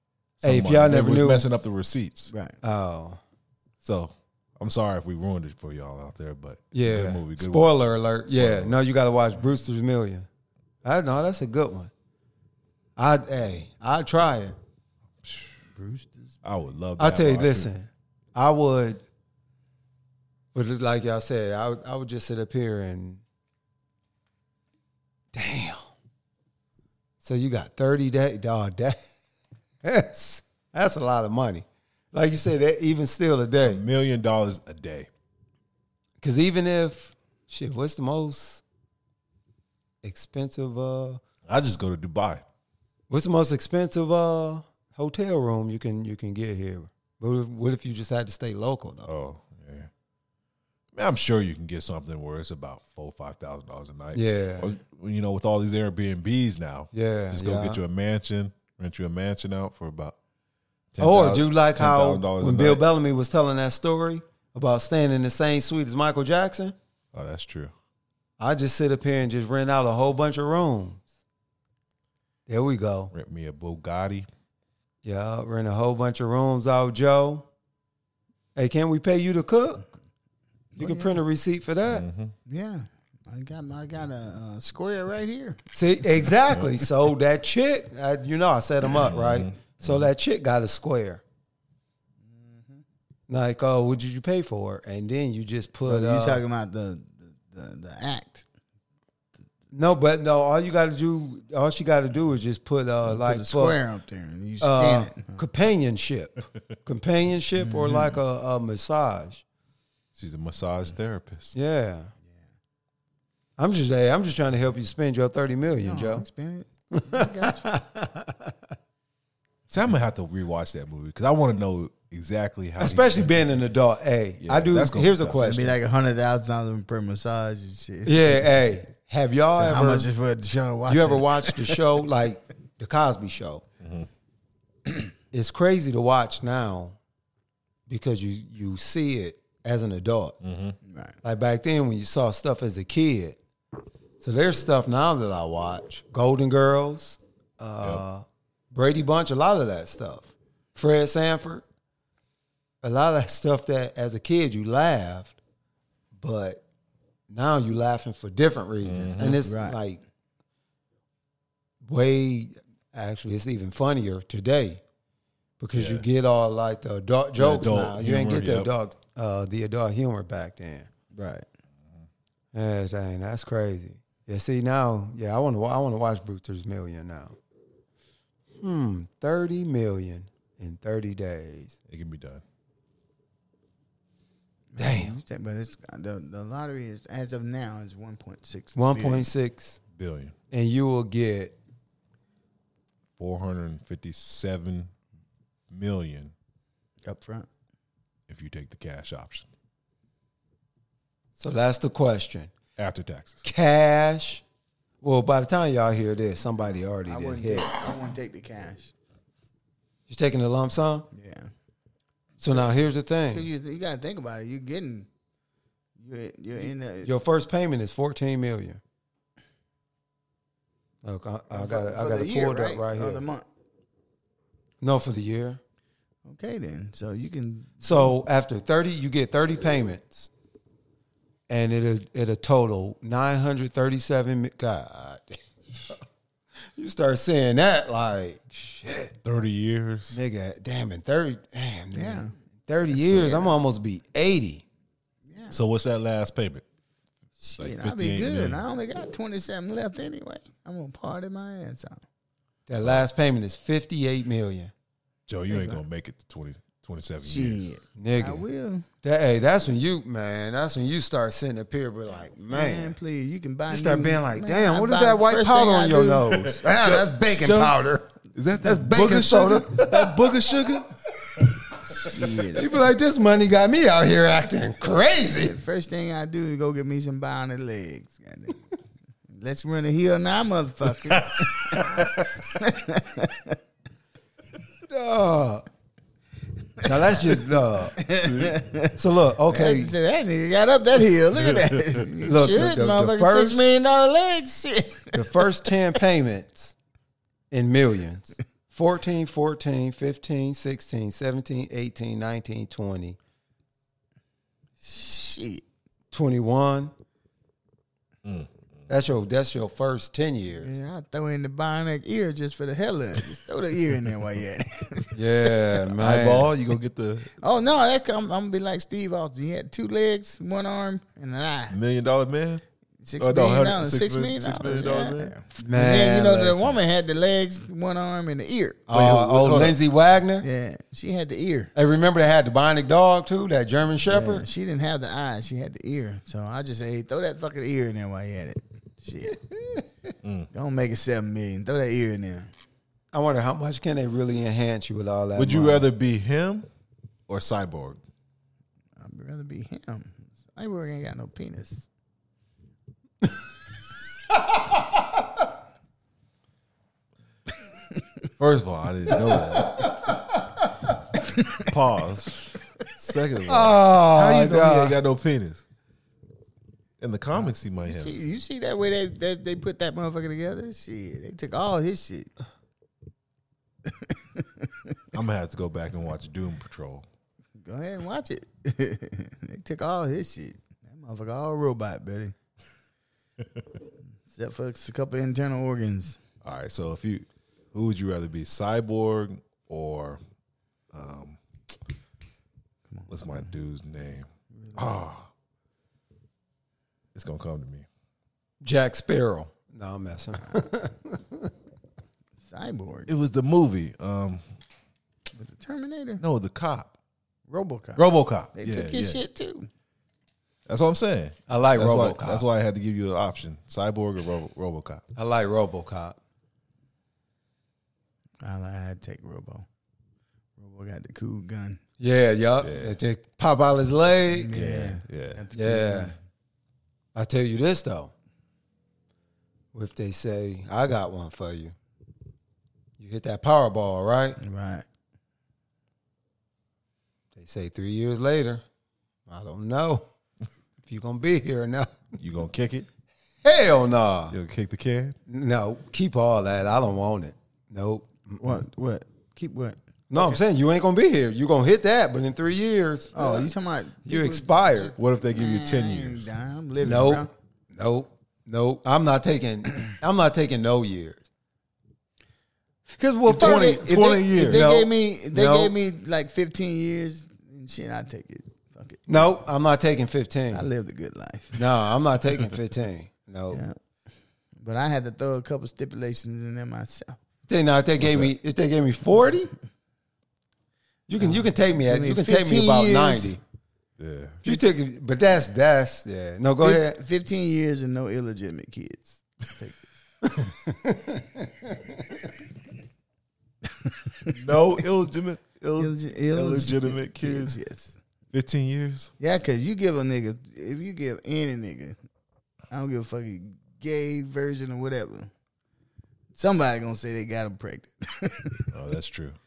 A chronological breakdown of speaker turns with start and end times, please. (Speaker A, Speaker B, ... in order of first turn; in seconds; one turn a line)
Speaker A: 0.4-2.3
Speaker B: 0.4-1.5
Speaker C: 2.3-2.6
Speaker B: 2.6-3.2
Speaker A: 3.8-8.8
Speaker B: 6.7-10.3
Speaker B: 10.8-11.9
Speaker B: 13.0-14.6
Speaker A: 15.2-15.6
Speaker C: 15.8-16.4
Speaker A: 16.4-17.7
Speaker B: 17.0-19.0
Speaker B: 20.5-23.2
Speaker B: 25.3-25.9
Speaker B: 27.2-29.0
Speaker B: 29.8-33.8
Speaker A: 33.6-35.1
Speaker B: 36.2-38.6
Speaker B: 40.0-41.2
Speaker A: 41.5-42.4
Speaker B: 43.1-49.1
Speaker A: 49.1-49.9
Speaker A: 50.9-60.1
Speaker B: 54.1-54.7
Speaker B: 56.9-57.8
Speaker A: 60.9-62.8
Speaker B: 61.0-66.8
Speaker A: 67.1-67.7
Speaker B: 68.4-71.1
Speaker B: 72.5-73.1
Speaker A: 73.1-74.3
Speaker B: 75.0-77.5
Speaker B: 78.5-79.8
Speaker C: 80.8-81.2
Speaker B: 80.8-82.1
Speaker A: 81.9-82.3
Speaker C: 82.5-85.6
Speaker B: 85.7-91.2
Speaker A: 89.0-90.1
Speaker C: 92.3-92.8
Speaker B: 93.3-96.4
Speaker C: 95.8-98.5
Speaker B: 99.7-103.8
Speaker C: 103.0-105.4
Speaker B: 104.6-109.4
Speaker C: 107.6-108.2
Speaker A: 110.2-111.5
Speaker B: 111.5-112.1
Speaker B: 113.6-116.2
Speaker C: 115.8-117.7
Speaker B: 116.9-118.5
Speaker A: 119.7-123.5
Speaker B: 122.8-125.8
Speaker A: 124.4-125.6
Speaker C: 125.3-128.5
Speaker B: 128.1-130.1
Speaker C: 129.5-131.8
Speaker B: 130.9-133.6
Speaker A: 133.8-134.1
Speaker B: 135.3-137.0
Speaker B: 137.9-140.4
Speaker A: 140.4-140.8
Speaker C: 140.9-141.2
Speaker B: 141.2-143.4
Speaker B: 144.2-151.6
Speaker B: 152.8-155.4
Speaker B: 156.2-156.6
Speaker B: 157.3-160.0
Speaker A: 158.8-159.4
Speaker C: 159.4-159.8
Speaker B: 161.8-164.8
Speaker B: 165.6-170.9
Speaker A: 165.7-166.1
Speaker A: 167.4-168.7
Speaker C: 171.1-171.5
Speaker B: 172.5-177.4
Speaker B: 178.6-181.8
Speaker A: 181.9-182.4
Speaker C: 184.7-189.3
Speaker B: 184.8-185.2
Speaker B: 188.8-189.8
Speaker A: 190.0-190.3
Speaker B: 190.5-191.6
Speaker A: 193.2-194.9
Speaker A: 195.7-196.3
Speaker C: 197.1-197.5
Speaker A: 198.3-199.5
Speaker B: 201.4-202.5
Speaker A: 202.8-203.4
Speaker B: 203.4-204.4
Speaker B: 205.0-207.7
Speaker C: 207.1-208.9
Speaker B: 210.1-211.1
Speaker C: 211.1-211.5
Speaker B: 212.4-213.4
Speaker C: 213.3-215.1
Speaker C: 216.0-217.1
Speaker B: 217.0-218.8
Speaker B: 221.0-223.2
Speaker C: 221.5-223.4
Speaker B: 224.8-225.6
Speaker C: 226.3-228.1
Speaker B: 227.8-230.3
Speaker B: 231.5-236.0
Speaker B: 236.7-239.1
Speaker A: 239.2-240.2
Speaker B: 240.1-244.6
Speaker C: 241.9-242.3
Speaker C: 242.9-243.5
Speaker C: 245.3-245.6
Speaker A: 245.5-246.6
Speaker C: 247.4-252.0
Speaker A: 247.6-248.6
Speaker B: 252.7-254.7
Speaker A: 255.3-257.7
Speaker C: 255.5-255.8
Speaker C: 257.2-258.9
Speaker B: 258.0-258.4
Speaker B: 259.0-263.0
Speaker C: 262.5-266.6
Speaker B: 263.7-268.1
Speaker A: 266.5-267.7
Speaker A: 268.4-270.9
Speaker B: 268.6-270.5
Speaker C: 271.8-272.8
Speaker B: 272.1-275.6
Speaker C: 275.4-278.6
Speaker C: 279.3-283.6
Speaker B: 284.9-285.7
Speaker C: 286.8-287.3
Speaker B: 286.8-288.0
Speaker C: 288.0-295.7
Speaker B: 289.0-289.9
Speaker B: 292.2-293.7
Speaker B: 295.1-296.8
Speaker B: 297.5-303.2
Speaker C: 304.8-305.6
Speaker B: 306.1-306.9
Speaker A: 308.2-308.5
Speaker B: 308.9-310.8
Speaker C: 310.6-315.5
Speaker B: 315.1-316.5
Speaker A: 315.9-317.3
Speaker C: 317.4-321.8
Speaker A: 321.7-322.6
Speaker C: 323.0-328.8
Speaker A: 323.2-325.3
Speaker B: 325.6-326.8
Speaker B: 328.9-330.5
Speaker A: 328.9-329.8
Speaker C: 330.4-331.7
Speaker B: 331.8-334.5
Speaker C: 334.1-339.5
Speaker A: 340.2-340.5
Speaker C: 340.5-342.5
Speaker B: 343.1-345.9
Speaker A: 345.4-346.7
Speaker A: 347.3-348.0
Speaker C: 349.0-351.9
Speaker A: 358.4-359.9
Speaker B: 359.3-360.2
Speaker C: 361.3-361.7
Speaker A: 361.6-365.6
Speaker B: 363.5-365.0
Speaker A: 367.0-368.1
Speaker C: 367.9-372.3
Speaker C: 373.9-374.9
Speaker A: 375.1-377.1
Speaker C: 377.6-382.3
Speaker C: 384.3-386.2
Speaker A: 386.4-390.2
Speaker A: 390.9-391.4
Speaker C: 392.9-393.5
Speaker A: 393.1-395.3
Speaker A: 397.1-397.9
Speaker B: 398.6-401.5
Speaker C: 402.4-403.1
Speaker A: 403.1-404.4
Speaker C: 405.4-406.2
Speaker A: 406.2-406.9
Speaker C: 407.5-408.0
Speaker A: 408.0-409.2
Speaker C: 408.6-409.7
Speaker A: 410.7-415.0
Speaker B: 411.5-412.4
Speaker B: 415.2-416.2
Speaker C: 418.4-419.7
Speaker C: 420.6-421.8
Speaker B: 422.0-424.6
Speaker A: 422.6-423.0
Speaker C: 424.3-426.2
Speaker A: 424.5-425.4
Speaker B: 425.5-426.1
Speaker B: 427.1-428.1
Speaker B: 429.7-431.7
Speaker B: 433.0-434.4
Speaker C: 434.4-434.9
Speaker B: 437.4-438.6
Speaker B: 439.3-440.1
Speaker B: 440.8-442.0
Speaker A: 442.2-442.9
Speaker B: 443.4-444.4
Speaker A: 444.3-445.2
Speaker B: 445.3-448.6
Speaker C: 448.4-450.4
Speaker B: 450.1-453.5
Speaker C: 453.1-457.3
Speaker B: 454.1-454.9
Speaker A: 455.0-456.3
Speaker B: 456.8-461.2
Speaker B: 462.9-465.8
Speaker A: 463.3-464.6
Speaker C: 463.3-469.3
Speaker B: 469.1-470.7
Speaker C: 470.5-471.7
Speaker B: 471.6-473.6
Speaker C: 473.5-473.8
Speaker C: 474.6-477.2
Speaker B: 477.5-479.5
Speaker A: 478.0-478.3
Speaker B: 481.1-483.4
Speaker C: 481.2-483.3
Speaker A: 484.0-484.4
Speaker B: 484.4-487.0
Speaker C: 486.6-489.8
Speaker B: 490.2-492.2
Speaker C: 493.8-494.4
Speaker A: 494.3-497.6
Speaker C: 495.8-498.0
Speaker A: 498.3-499.1
Speaker C: 499.2-502.0
Speaker C: 502.7-505.3
Speaker C: 506.4-508.7
Speaker A: 508.7-509.4